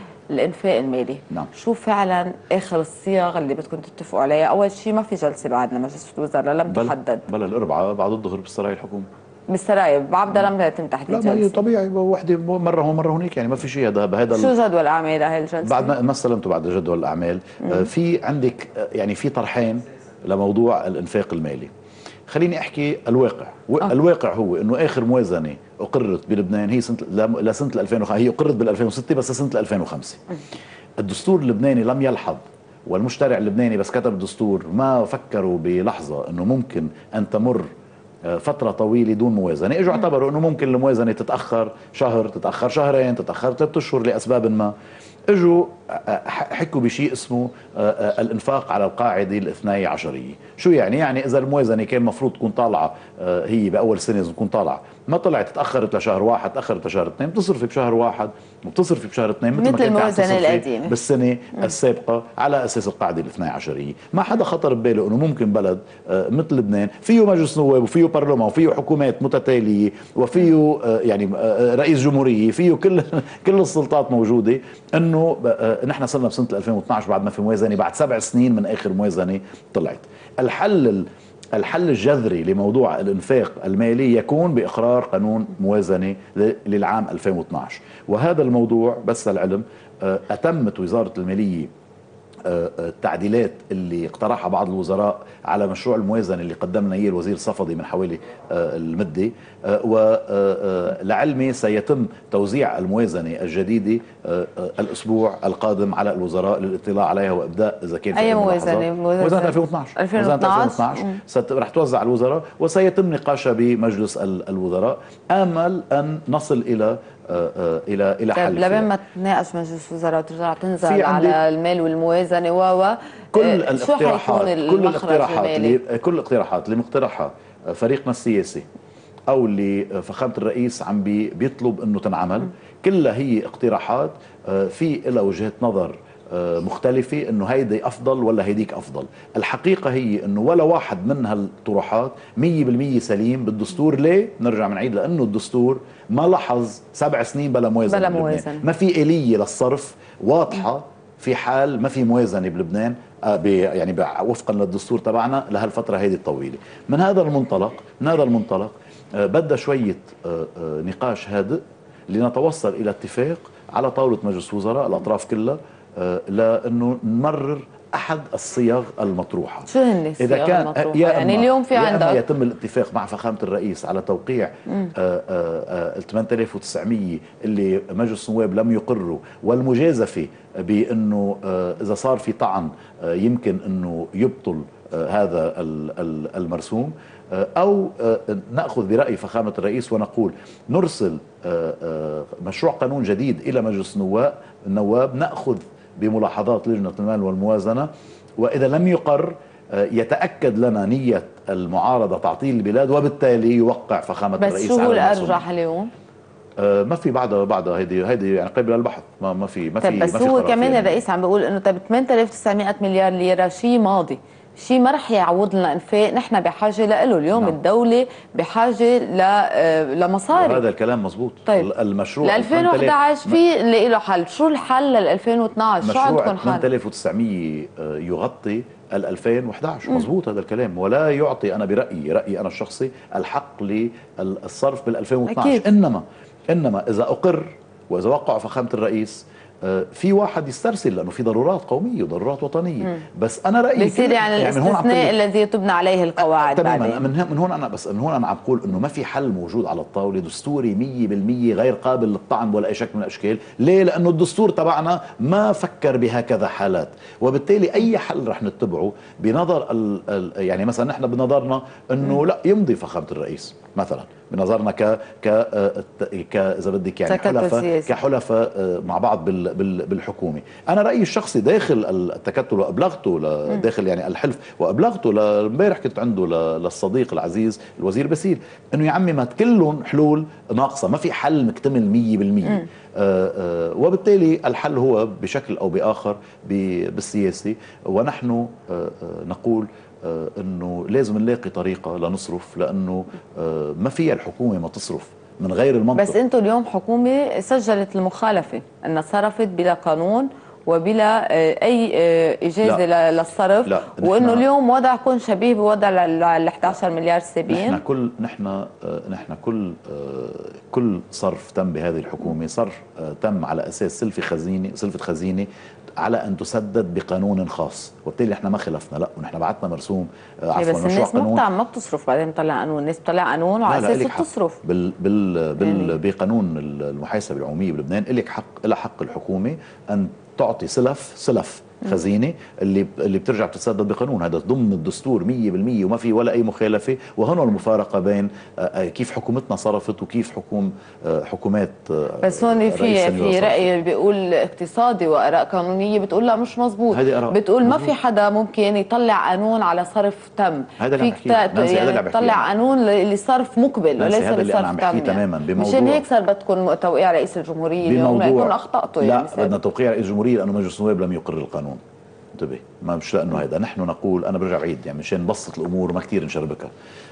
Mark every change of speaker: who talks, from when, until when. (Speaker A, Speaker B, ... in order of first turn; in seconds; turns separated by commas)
Speaker A: 0.3-7.2, Speaker B: 6.7-9.1, Speaker A: 9.5-11.6, Speaker B: 11.1-14.6, Speaker A: 14.3-15.9, Speaker B: 15.6-21.7, Speaker A: 17.6-17.9, Speaker B: 22.3-30.2, Speaker B: 31.0-37.7, Speaker B: 38.2-44.7, Speaker B: 45.3-91.7, Speaker A: 59.6-60.9, Speaker B: 92.5-118.9, Speaker A: 108.2-111.2, Speaker A: 118.3-125.8, Speaker B: 120.8-121.4, Speaker B: 123.3-128.7, Speaker B: 129.3-205.4, Speaker A: 147.9-148.7, Speaker A: 169.7-172.2, Speaker A: 204.4-205.9, Speaker B: 206.6-211.0, Speaker A: 209.8-220.6, Speaker B: 220.3-223.4, Speaker A: 222.2-226.7, Speaker B: 225.8-245.2, Speaker A: 235.3-235.7, Speaker A: 243.8-247.0, Speaker B: 246.2-296.2, Speaker A: 267.1-267.9, Speaker A: 295.9-307.8, Speaker B: 303.7-304.4, Speaker B: 307.5-315.5, Speaker B: 316.0-321.4, Speaker A: 320.6-324.6, Speaker B: 323.7-343.7, Speaker A: 325.6-325.9, Speaker A: 342.2-359.5, Speaker B: 346.9-347.9, Speaker B: 350.8-352.5, Speaker B: 354.0-356.1, Speaker B: 357.8-361.8, Speaker B: 362.3-366.7